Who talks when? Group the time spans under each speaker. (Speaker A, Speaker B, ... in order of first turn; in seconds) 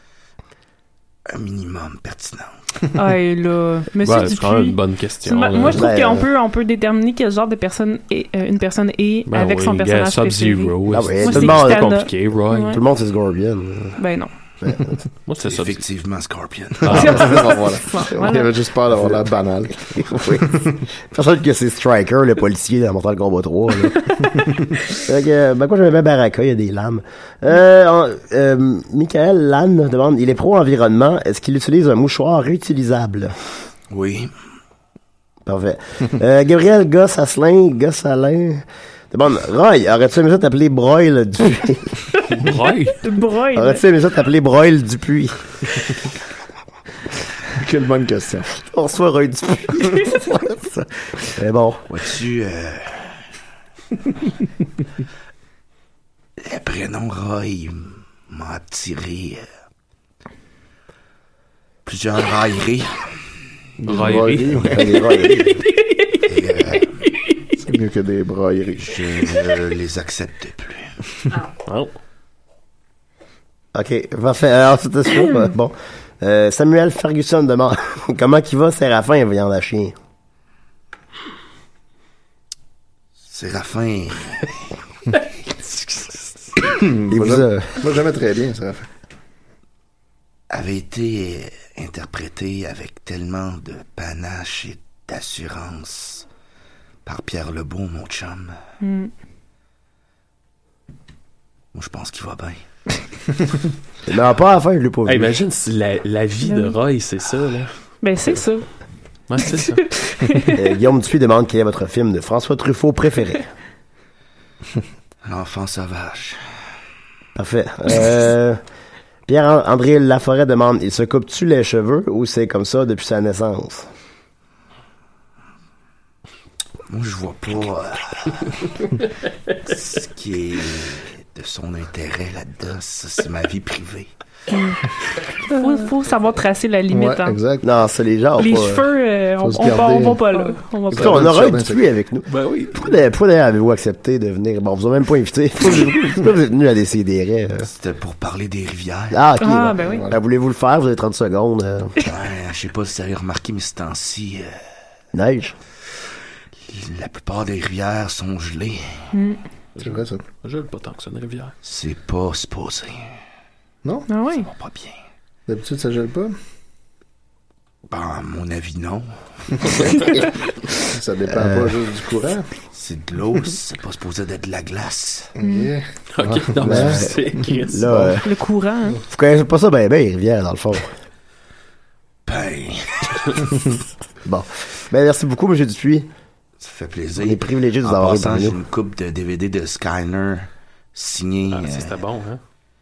Speaker A: 1.3-2.6, 15.4-17.3, 33.9-34.3, 51.9-53.2, 56.4-59.5, 61.9-63.1, 66.3-67.0, 68.8-71.0, 83.2-84.6, 90.5-96.3, 97.0-98.6, 101.7-102.6, 115.2-116.4, 126.9-128.8, 129.6-134.1, 147.6-149.2, 152.1-154.5, 156.7-159.0, 161.6-163.2, 164.3-165.0, 167.9-170.1, 172.7-175.3, 182.3-183.6, 186.6-192.0
Speaker B: 3.0-12.8, 14.0-14.3, 16.9-18.6, 42.9-43.8, 65.3-67.6, 98.8-99.1, 106.4-106.8, 108.0-108.7, 109.9-110.5, 134.5-134.8, 135.4-137.4, 138.4-141.2, 149.4-150.1, 159.1-159.4, 164.1-164.5, 175.4-175.7, 178.2-179.0
Speaker C: 4.0-5.8, 9.3-12.8, 15.3-15.8, 16.8-17.3, 42.3-43.0, 63.9-64.5, 71.7-71.9, 105.1-107.7, 109.3-109.9, 142.3-142.9, 159.8-161.5, 176.1-177.9, 191.5-192.4
Speaker D: 5.6-6.3, 10.9-11.9, 12.7-14.0, 14.6-15.0, 18.9-19.2, 19.9-24.1, 24.9-33.3, 35.5-42.0, 43.5-45.5, 48.6-51.9, 64.5-65.6, 73.8-80.0, 87.1-87.8, 104.1-105.4, 110.5-113.5, 117.3-118.6, 119.3-123.9, 137.6-138.8, 140.9-147.7, 149.1-151.9, 155.1-155.6, 171.3-171.8, 176.6-178.3, 179.1-180.9, 184.2-186.1, 187.2-188.6
Speaker E: 16.9-20.9, 47.5-48.6, 63.8-65.2, 67.7-69.3, 86.6-88.9, 136.9-137.7, 139.4-140.2, 140.9-141.8, 149.8-150.2, 159.8-160.2, 165.5-166.3, 169.6-172.5, 175.4-178.2